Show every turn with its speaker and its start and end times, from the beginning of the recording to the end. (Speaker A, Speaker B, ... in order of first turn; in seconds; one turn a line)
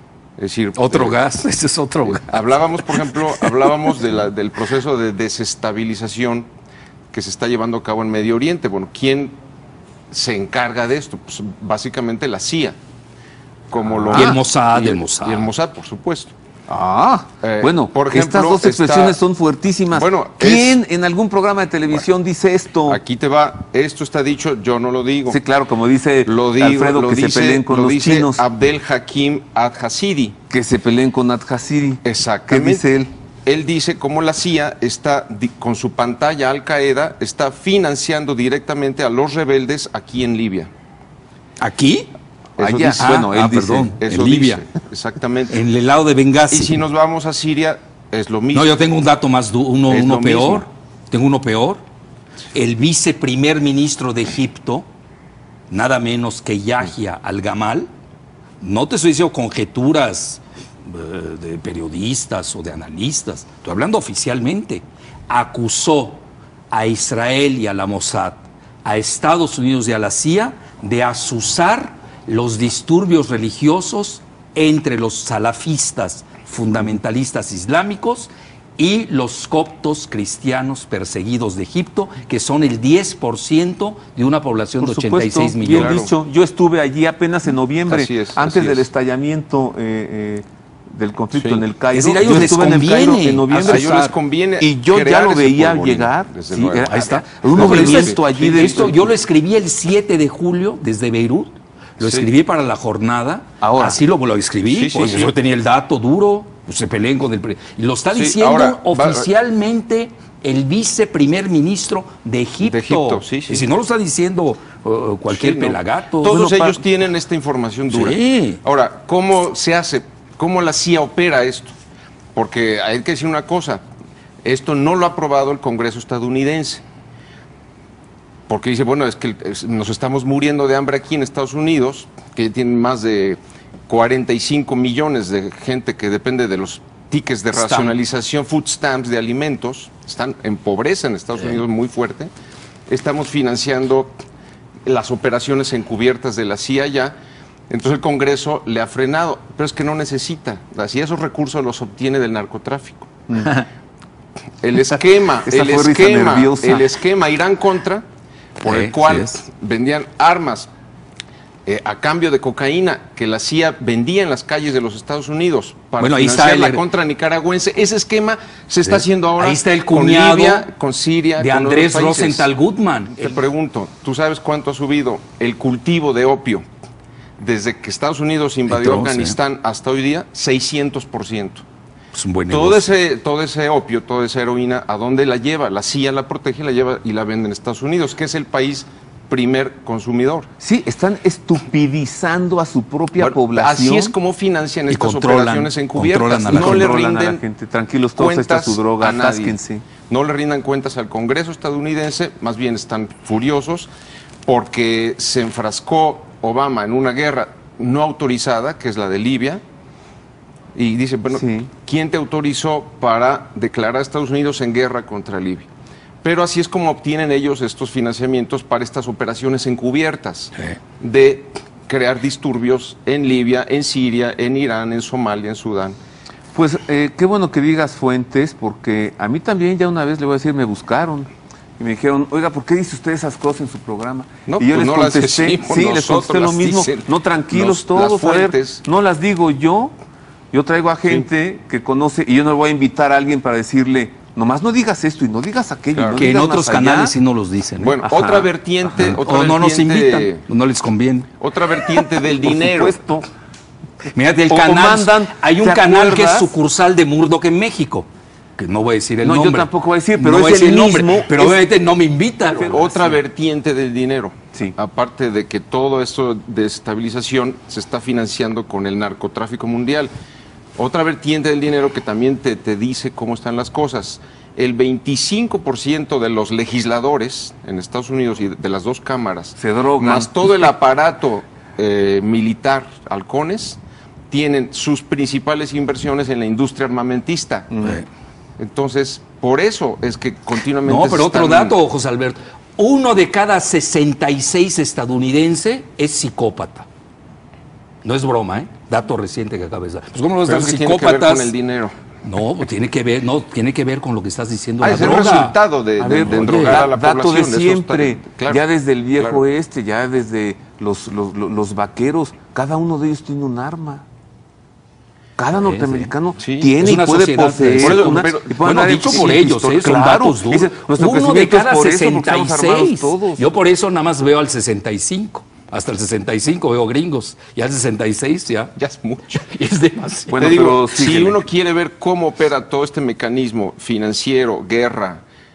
Speaker A: 0.4-1.2
Speaker B: 0.8-3.5
Speaker A: 2.2-6.5
Speaker A: 7.1-9.4
Speaker A: 10.1-12.8
Speaker A: 13.7-16.3
Speaker C: 13.8-14.3
Speaker B: 14.1-15.5
Speaker C: 16.7-23.0
Speaker A: 17.4-19.2
Speaker A: 19.9-20.8
Speaker A: 22.9-25.4
Speaker C: 25.3-28.4
Speaker A: 26.2-30.4
Speaker C: 30.5-33.1
Speaker A: 32.0-32.9
Speaker A: 33.5-40.7
Speaker B: 41.6-42.1
Speaker A: 42.6-43.1
Speaker C: 42.6-43.9
Speaker B: 43.0-44.6
Speaker A: 44.0-45.6
Speaker B: 45.5-46.8
Speaker A: 46.5-48.8
Speaker B: 48.5-51.8
Speaker A: 49.9-50.7
Speaker B: 52.5-54.9
Speaker B: 55.7-57.9
Speaker B: 58.6-86.0
Speaker C: 84.8-93.9
Speaker A: 85.6-86.1
Speaker A: 87.9-88.9
Speaker A: 91.3-91.7
Speaker B: 91.9-94.2
Speaker A: 92.2-93.0
Speaker A: 93.5-99.0
Speaker C: 94.6-99.1
Speaker B: 96.9-116.4
Speaker A: 102.0-102.3
Speaker C: 103.6-104.0
Speaker A: 104.7-105.3
Speaker A: 108.1-109.3
Speaker A: 112.6-113.7
Speaker A: 115.3-121.7
Speaker C: 116.3-116.8
Speaker B: 117.9-118.6
Speaker A: 122.3-123.8
Speaker A: 124.4-126.8
Speaker A: 128.5-142.3
Speaker B: 137.5-137.9
Speaker A: 142.9-144.2
Speaker A: 144.9-147.2
Speaker A: 147.7-153.1
Speaker A: 154.6-158.0
Speaker C: 155.4-156.8
Speaker A: 158.6-160.7
Speaker B: 158.6-159.4
Speaker A: 161.7-172.5
Speaker B: 166.0-166.8
Speaker B: 168.8-170.7
Speaker B: 171.4-173.4
Speaker A: 173.2-176.7
Speaker A: 177.4-181.6
Speaker B: 178.7-179.4
Speaker B: 182.1-182.9
Speaker A: 182.5-190.5
Speaker C: 190.6-194.1
Speaker A: 193.2-197.4
Speaker B: 194.9-197.0
Speaker C: 196.5-199.9
Speaker A: 198.2-199.6
Speaker A: 200.1-203.9
Speaker A: 204.4-209.6
Speaker A: 210.8-215.7
Speaker C: 211.3-211.7
Speaker A: 216.2-226.0
Speaker C: 226.5-239.9
Speaker A: 234.5-238.8
Speaker C: 240.5-247.2
Speaker A: 245.9-246.2
Speaker B: 246.1-248.0
Speaker A: 247.8-250.4
Speaker C: 248.0-248.5
Speaker B: 248.9-251.3
Speaker A: 251.4-253.0
Speaker C: 252.2-253.2
Speaker B: 254.1-263.1
Speaker C: 254.5-256.5
Speaker C: 259.2-261.6
Speaker C: 262.5-262.9
Speaker A: 262.5-270.1
Speaker A: 270.8-283.8
Speaker C: 279.6-280.7
Speaker A: 284.3-287.7
Speaker C: 287.7-288.0
Speaker A: 288.6-291.8
Speaker B: 290.9-296.9
Speaker B: 298.0-301.5
Speaker A: 300.4-301.9
Speaker B: 302.2-305.6
Speaker A: 304.8-309.4
Speaker C: 306.0-314.0
Speaker B: 306.2-306.9
Speaker C: 315.4-323.5
Speaker B: 315.5-316.1
Speaker A: 316.4-316.8
Speaker B: 316.8-328.7
Speaker A: 317.8-319.6
Speaker A: 328.8-329.4
Speaker B: 329.5-330.5
Speaker C: 330.3-331.4
Speaker A: 330.4-335.2